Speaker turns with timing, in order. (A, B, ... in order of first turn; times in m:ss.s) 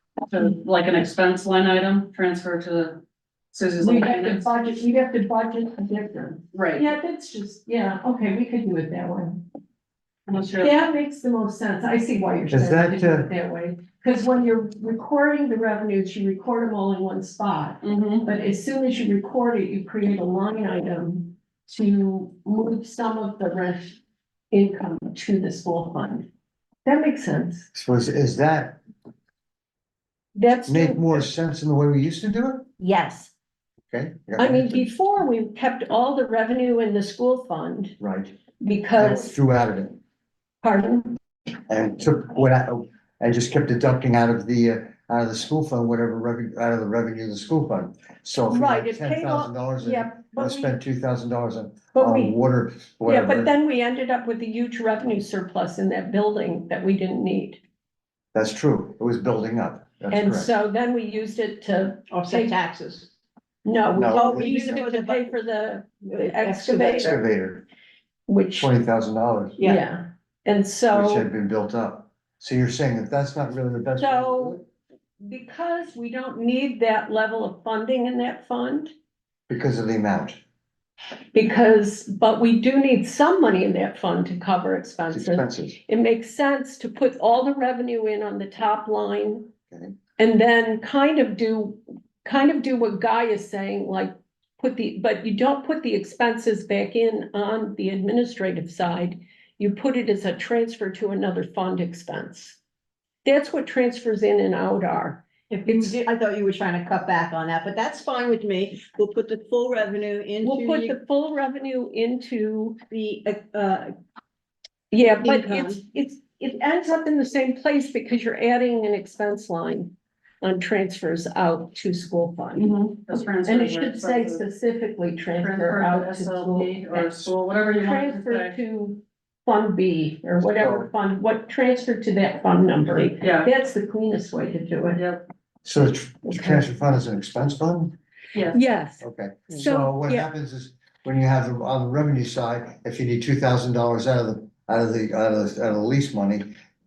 0:00.3-0:03.0 A
0:03.5-0:04.5 A
0:03.8-0:09.4 B
0:06.5-0:06.9 A
0:10.3-0:10.8 A
0:10.6-0:24.0 B
0:12.5-0:13.3 C
0:17.8-0:18.3 A
0:24.5-0:26.3 B
0:26.8-0:27.7 B
0:27.7-0:28.8 C
0:30.3-0:31.2 B
0:30.7-0:32.7 C
0:32.8-0:33.3 D
0:33.9-0:34.8 C
0:34.4-0:37.9 B
0:38.0-0:38.4 C
0:38.6-0:39.4 B
0:39.0-0:40.0 C
0:40.6-0:41.2 B
0:41.7-0:53.5 C
0:48.5-0:50.7 B
0:51.9-0:52.3 B
0:53.0-0:57.6 B
0:58.3-1:00.5 C
1:00.1-1:02.6 B
1:02.1-1:03.1 D
1:03.6-1:07.2 B
1:03.9-1:04.5 C
1:04.1-1:05.4 D
1:06.1-1:07.2 D
1:06.9-1:07.6 C
1:08.3-1:08.7 B
1:08.6-1:09.6 C
1:09.6-1:11.3 B
1:10.9-1:14.6 C
1:14.0-1:14.6 B
1:15.2-1:18.9 B
1:19.5-1:20.4 C
1:21.3-1:29.5 B
1:25.1-1:25.8 C
1:30.2-1:42.6 B
1:43.2-1:46.0 B
1:45.5-1:51.0 D
1:50.4-1:52.8 B
1:52.9-1:53.9 D
1:54.9-2:02.7 B
1:55.2-1:55.8 D
2:02.5-2:04.4 A
2:03.4-2:15.0 B
2:05.4-2:08.6 A
2:10.6-2:10.9 C
2:13.2-2:13.5 A
2:14.9-2:15.2 A
2:15.6-2:18.0 C
2:16.3-2:16.6 B
2:18.3-2:18.6 A
2:18.5-2:20.3 B
2:19.0-2:26.5 C